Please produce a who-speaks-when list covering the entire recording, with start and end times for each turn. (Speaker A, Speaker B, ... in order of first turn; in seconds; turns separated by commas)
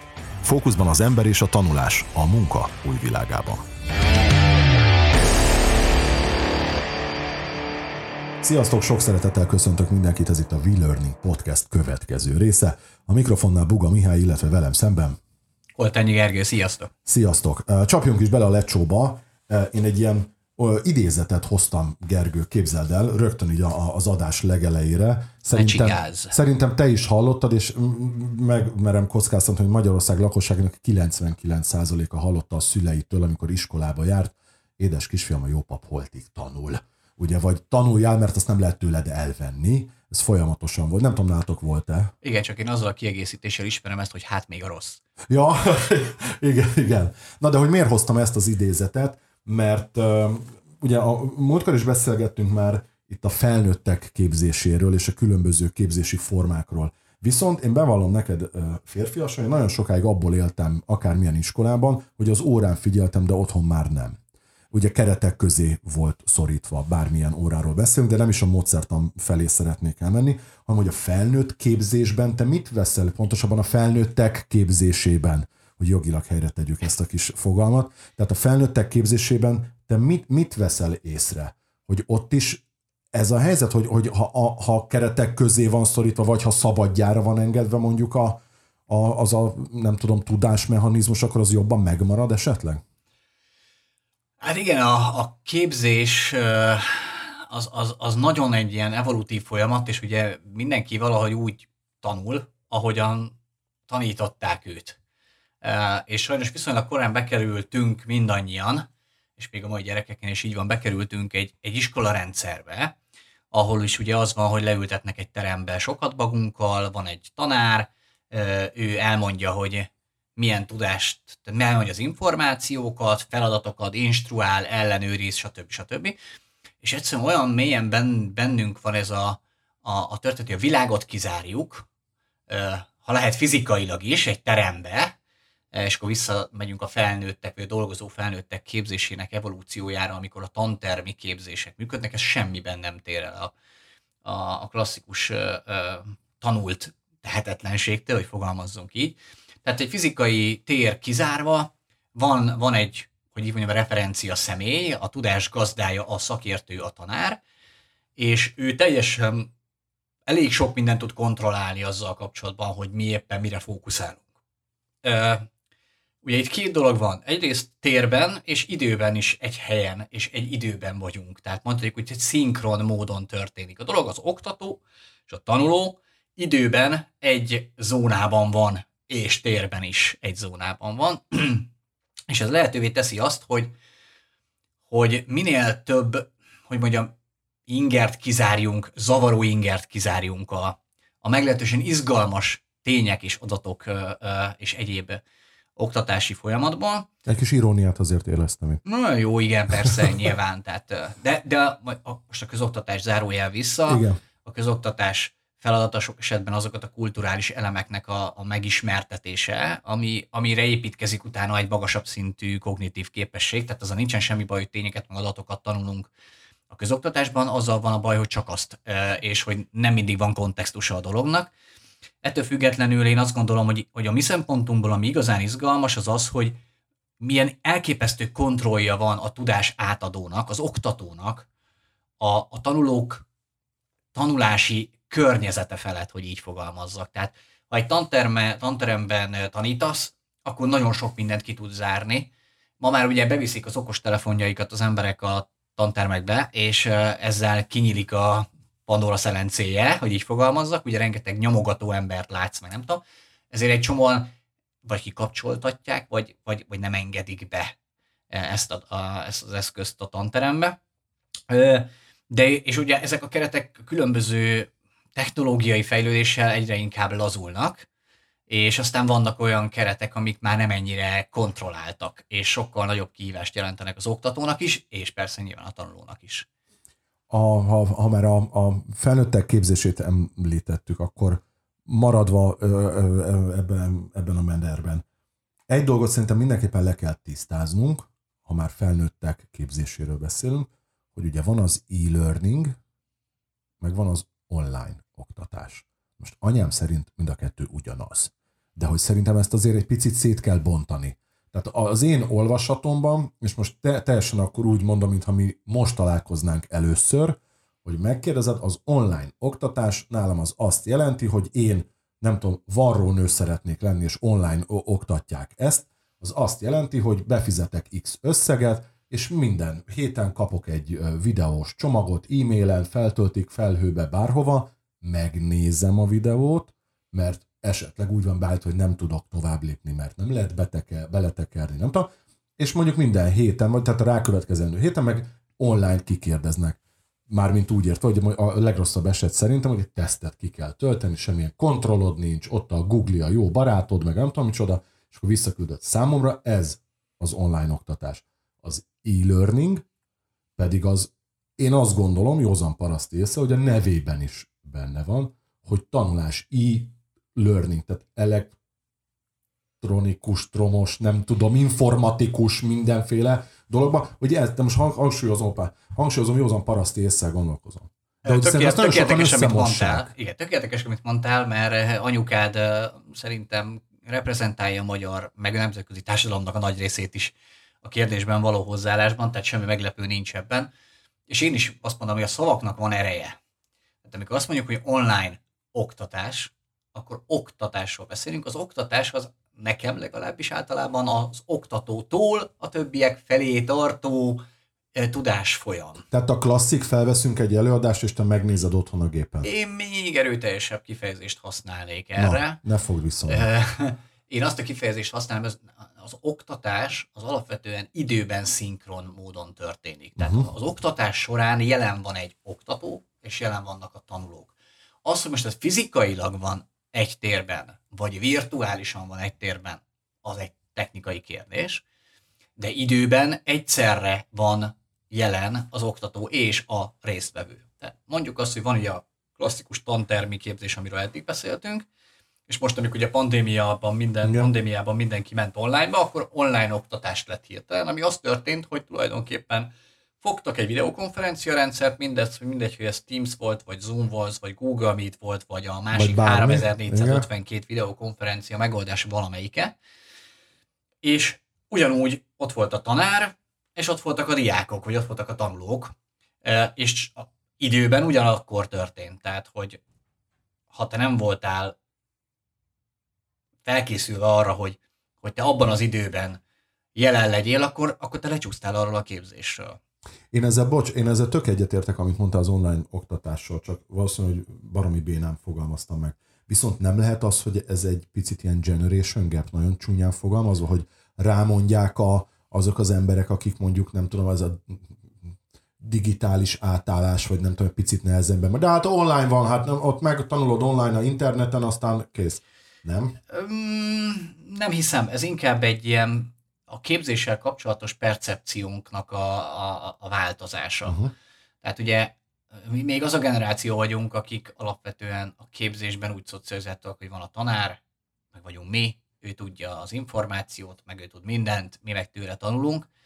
Speaker A: 0.4-3.6, Speaker A: 8.4-15.2, Speaker B: 15.8-16.9, Speaker A: 17.1-42.1, Speaker B: 25.5-26.4, Speaker B: 42.2-45.0, Speaker A: 45.3-64.2, Speaker A: 64.7-92.8, Speaker B: 94.4-103.3, Speaker B: 103.9-105.0, Speaker B: 105.6-112.9, Speaker B: 113.5-126.2, Speaker B: 126.8-131.9, Speaker B: 132.5-135.1, Speaker B: 135.7-143.5, Speaker B: 144.2-157.4, Speaker B: 158.2-159.5, Speaker B: 160.3-164.2, Speaker B: 165.0-165.5, Speaker B: 166.2-181.7, Speaker B: 182.3-183.7, Speaker B: 184.9-187.1, Speaker B: 187.7-195.2, Speaker B: 195.8-197.1, Speaker A: 197.2-198.8, Speaker B: 198.8-216.1, Speaker A: 203.9-204.2, Speaker B: 216.7-221.5, Speaker B: 222.2-226.6, Speaker B: 227.2-231.5, Speaker B: 232.2-233.2, Speaker B: 234.1-254.3, Speaker B: 254.8-257.7, Speaker B: 258.3-260.8, Speaker B: 261.5-267.9, Speaker B: 268.5-276.5, Speaker A: 277.3-285.0, Speaker A: 285.7-292.7, Speaker A: 293.8-349.8, Speaker A: 350.6-358.6, Speaker A: 359.8-370.1, Speaker B: 368.2-380.7, Speaker B: 381.3-383.4, Speaker B: 384.0-394.4, Speaker B: 394.9-396.0, Speaker A: 396.1-399.5, Speaker B: 399.4-402.6, Speaker A: 402.2-403.5, Speaker B: 403.3-421.8, Speaker A: 410.2-410.5, Speaker B: 422.6-431.9, Speaker B: 432.5-449.7, Speaker A: 434.2-434.5, Speaker A: 445.9-447.3, Speaker B: 451.0-459.8, Speaker B: 460.7-461.7, Speaker B: 463.6-466.4, Speaker B: 466.9-469.8, Speaker A: 470.3-485.0, Speaker A: 485.8-493.1, Speaker B: 493.3-501.0, Speaker A: 500.8-501.1, Speaker B: 501.6-507.8, Speaker B: 508.3-512.9